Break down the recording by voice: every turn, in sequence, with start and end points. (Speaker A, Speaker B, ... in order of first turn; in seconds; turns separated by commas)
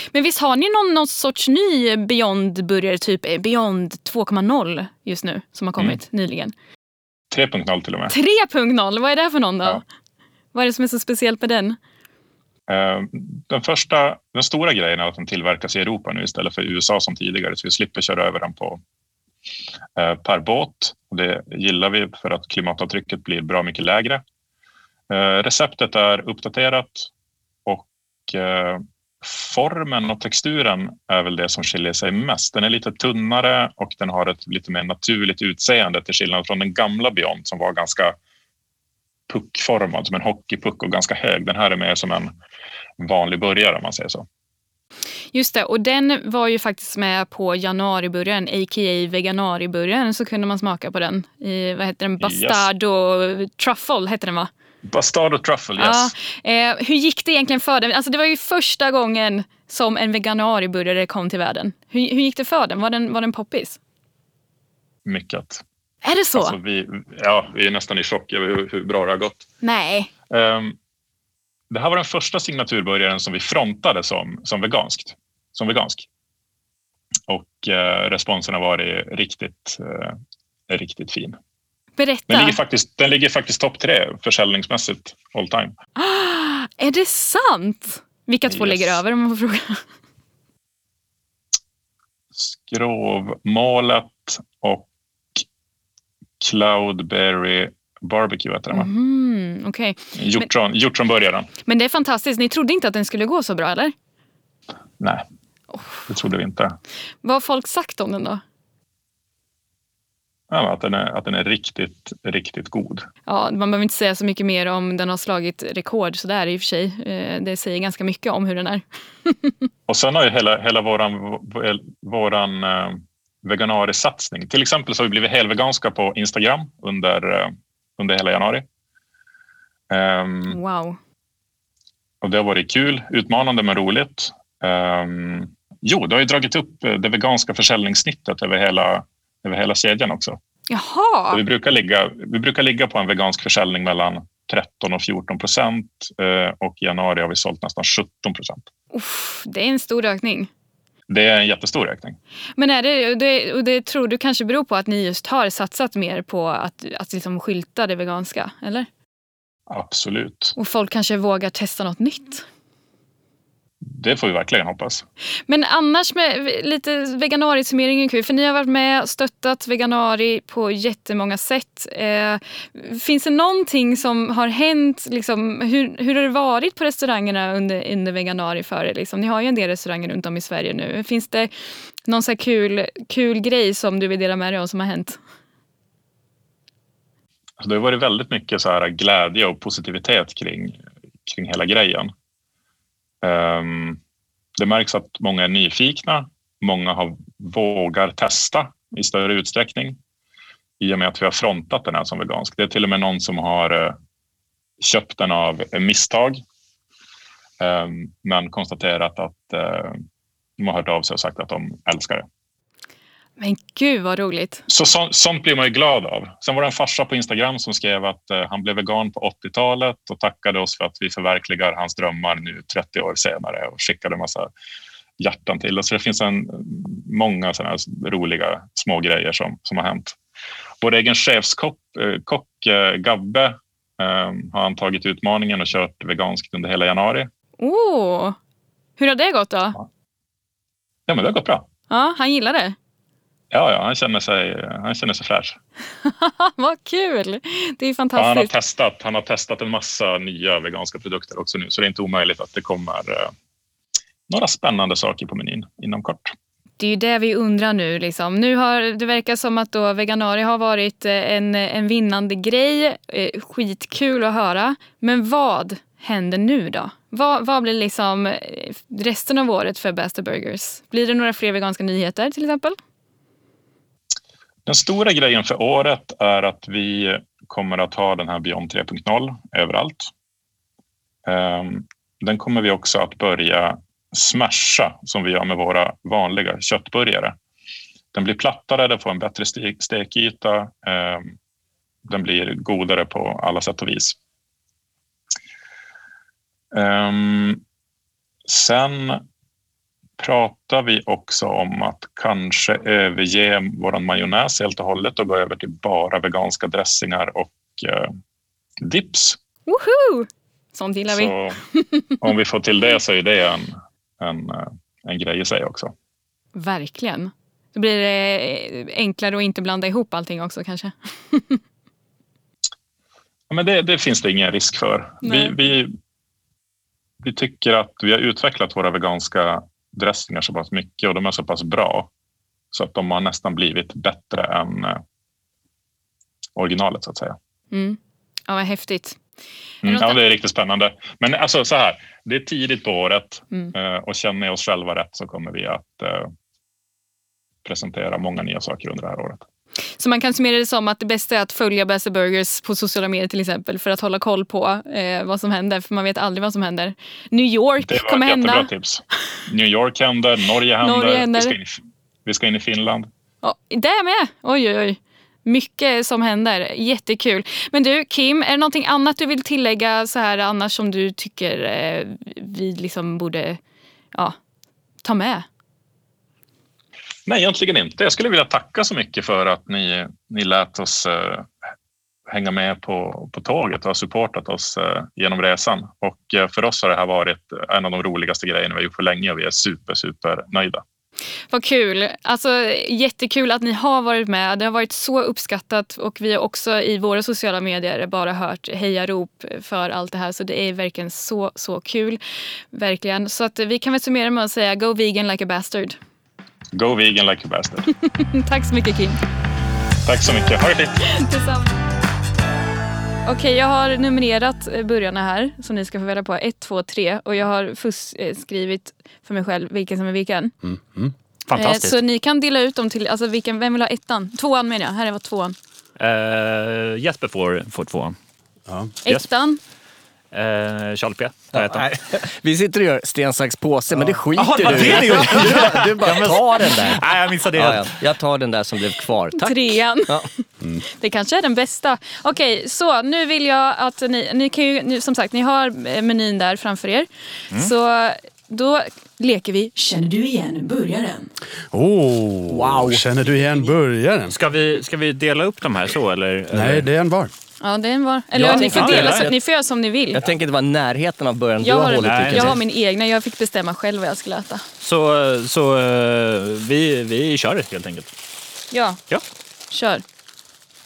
Speaker A: 0.1-6.5, Speaker B: 7.3-8.1, Speaker A: 8.1-9.8, Speaker A: 10.5-11.8, Speaker B: 12.7-18.8, Speaker B: 20.0-24.2, Speaker B: 25.1-27.1, Speaker B: 27.6-38.1, Speaker B: 39.3-42.3, Speaker B: 43.0-44.2, Speaker A: 45.3-54.5, Speaker B: 52.2-52.7, Speaker B: 54.9-56.1, Speaker A: 55.8-63.8, Speaker B: 65.0-65.6, Speaker A: 66.0-66.5, Speaker B: 66.3-69.4, Speaker A: 69.6-70.1, Speaker B: 70.3-70.8, Speaker B: 71.7-76.0, Speaker B: 77.3-80.2, Speaker B: 80.7-81.4, Speaker A: 82.0-82.6, Speaker B: 82.3-85.7, Speaker A: 86.0-89.8, Speaker B: 88.5-89.0, Speaker B: 92.3-95.4, Speaker B: 96.4-98.9, Speaker A: 98.7-100.5, Speaker B: 100.2-101.5, Speaker A: 101.6-103.9, Speaker B: 106.1-106.8, Speaker A: 107.2-108.4, Speaker B: 110.5-113.1, Speaker A: 113.2-119.5, Speaker B: 119.9-128.7, Speaker B: 129.9-130.6, Speaker A: 130.5-131.0, Speaker B: 132.2-140.4, Speaker A: 140.7-141.4, Speaker B: 141.3-148.6, Speaker A: 148.9-150.5, Speaker B: 151.1-152.2, Speaker A: 152.6-158.9, Speaker B: 159.7-160.6, Speaker A: 160.6-162.4, Speaker B: 163.9-165.0, Speaker A: 165.5-181.5, Speaker A: 182.1-185.2, Speaker B: 187.6-192.1, Speaker B: 193.2-194.0, Speaker B: 194.6-200.0, Speaker B: 200.8-203.9, Speaker B: 204.8-206.4, Speaker B: 207.6-210.0, Speaker B: 210.6-212.2, Speaker A: 213.4-214.6, Speaker B: 214.7-224.5, Speaker B: 225.2-230.2, Speaker B: 230.8-237.3, Speaker A: 237.6-238.4, Speaker A: 239.0-239.8, Speaker B: 241.1-241.7, Speaker A: 241.9-242.7, Speaker B: 243.5-245.6, Speaker A: 246.0-248.5, Speaker B: 248.2-253.3, Speaker B: 254.3-256.3, Speaker A: 256.8-272.8, Speaker B: 274.6-280.1, Speaker B: 281.2-287.4, Speaker B: 288.1-291.3, Speaker B: 292.1-294.2, Speaker B: 296.7-297.6, Speaker B: 298.5-299.2, Speaker B: 300.2-308.1, Speaker B: 308.8-309.4, Speaker A: 309.7-312.2, Speaker B: 311.1-311.6, Speaker B: 312.2-315.9, Speaker A: 316.5-321.6, Speaker B: 323.5-325.9, Speaker A: 325.2-325.6, Speaker B: 327.2-332.1, Speaker B: 332.7-335.0, Speaker B: 336.6-337.4, Speaker A: 337.7-339.2, Speaker B: 339.8-346.3, Speaker A: 339.8-340.2, Speaker B: 347.6-349.4, Speaker A: 350.0-358.7, Speaker B: 357.8-363.1, Speaker A: 360.8-361.6, Speaker A: 363.4-373.6, Speaker A: 375.0-375.4, Speaker B: 377.3-381.5, Speaker B: 382.3-390.8, Speaker A: 391.5-402.2, Speaker A: 402.7-406.0, Speaker B: 406.7-407.9, Speaker A: 408.1-409.2, Speaker B: 410.0-411.0, Speaker A: 411.0-411.8, Speaker A: 413.2-420.5, Speaker C: 420.6-421.1, Speaker D: 421.5-422.0, Speaker A: 421.5-425.6, Speaker D: 426.0-428.1, Speaker C: 428.7-428.9, Speaker A: 429.0-429.6, Speaker D: 430.3-431.9, Speaker E: 431.5-440.3, Speaker D: 434.4-438.0, Speaker C: 434.6-436.2, Speaker A: 439.3-440.2, Speaker A: 440.9-451.3, Speaker C: 451.7-454.3, Speaker E: 452.5-453.7, Speaker D: 454.3-456.9, Speaker C: 456.5-457.3, Speaker A: 457.6-460.2, Speaker E: 458.3-459.4, Speaker D: 458.4-459.3, Speaker E: 460.1-462.6, Speaker A: 461.6-464.6, Speaker D: 462.0-462.6, Speaker D: 464.8-468.1, Speaker A: 468.7-469.0, Speaker A: 469.7-470.0